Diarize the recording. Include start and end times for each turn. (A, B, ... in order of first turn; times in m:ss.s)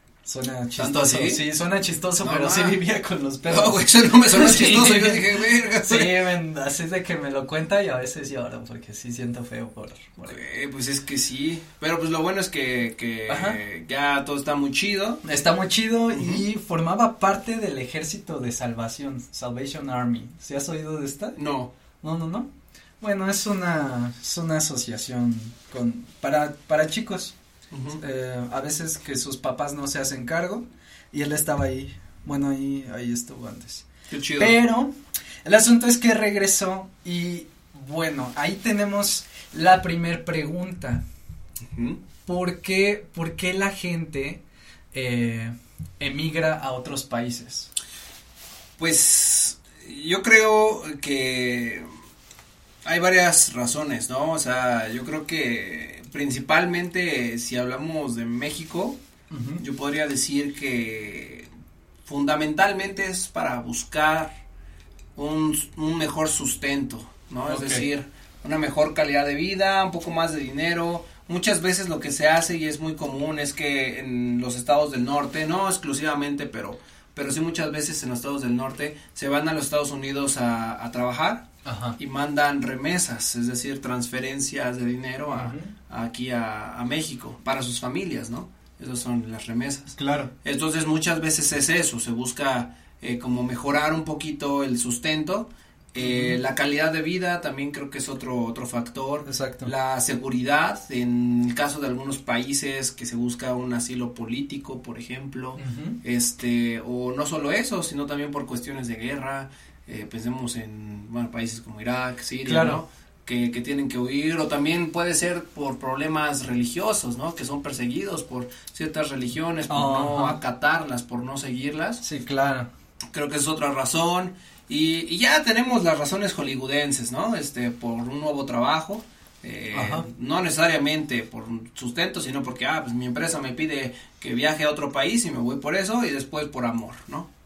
0:00.2-0:10.4 A
0:00.8-0:01.4 B
0:02.2-0:02.8 B
0:03.5-0:06.2 B
0:10.3-0:15.2 B
0:13.3-0:13.6 A
0:15.2-0:21.4 A
0:16.1-0:16.4 B
0:21.4-0:21.7 B
0:22.0-0:22.5 A
0:23.0-0:27.3 A
0:27.7-0:28.0 B
0:28.0-0:33.9 A
0:34.1-0:34.6 B
0:34.4-0:34.9 A
0:35.4-0:41.0 A
0:41.6-0:42.0 B
0:42.3-0:44.4 A
0:44.9-0:47.7 A
0:48.8-0:51.8 B
0:52.8-0:59.0 B
0:59.3-0:59.6 A
0:59.6-1:01.5 B
1:02.1-1:04.3 B
1:05.2-1:21.5 B
1:07.5-1:07.8 A
1:21.6-1:22.0 A
1:22.0-2:02.0 B
1:25.3-1:25.8 A
1:29.9-1:30.3 A
1:36.0-1:36.4 A
1:39.3-1:39.7 A
1:45.6-1:46.0 A
1:52.5-1:52.8 A
1:59.7-2:00.4 A
2:02.0-2:02.7 A
2:03.1-2:17.3 B
2:09.7-2:10.1 A